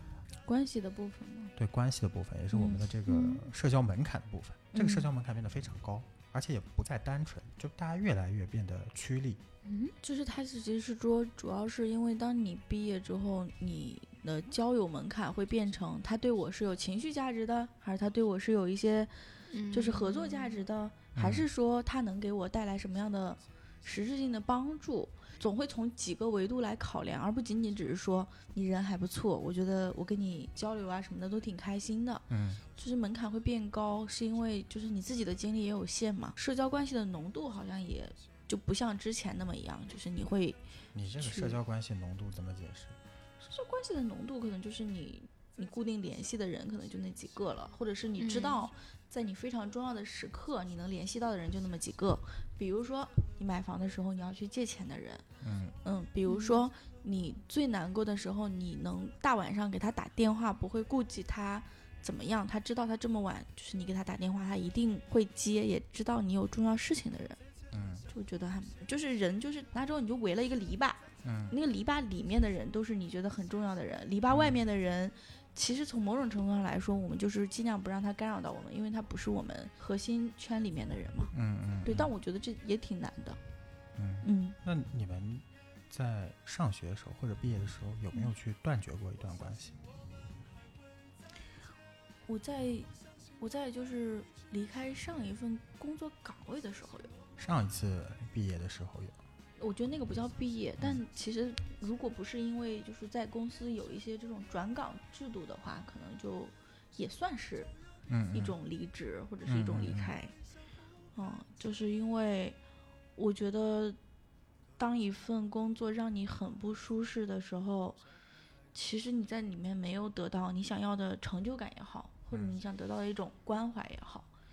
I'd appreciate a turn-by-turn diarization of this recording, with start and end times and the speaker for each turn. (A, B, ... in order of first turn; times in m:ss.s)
0:00.4-0:01.5 A
0:01.6-0:09.4 B
0:02.5-0:03.4 A
0:04.7-0:05.1 A
0:09.6-0:09.9 C
0:10.0-0:19.1 A
0:19.5-0:20.6 C
0:19.7-0:40.6 A
0:21.1-0:21.4 B
0:32.3-0:32.6 B
0:40.9-0:43.0 B
0:41.2-0:41.6 A
0:43.4-0:55.2 A
0:48.2-0:48.6 C
0:55.4-0:55.8 B
0:55.8-1:07.4 A
0:56.2-0:56.6 C
1:07.7-1:08.1 B
1:08.1-1:21.3 A
1:11.2-1:11.5 B
1:14.3-1:14.6 B
1:21.3-1:22.1 B
1:21.8-1:23.4 A
1:24.0-1:29.8 B
1:24.2-1:24.6 A
1:32.3-1:37.1 A
1:37.4-1:39.2 B
1:39.6-1:47.7 A
1:48.1-1:48.6 B
1:48.3-1:50.3 A
1:49.4-1:50.1 B
1:51.1-1:52.6 A
1:53.2-1:54.0 A
1:54.8-1:58.0 A
1:58.7-2:04.3 A
2:02.3-2:02.6 B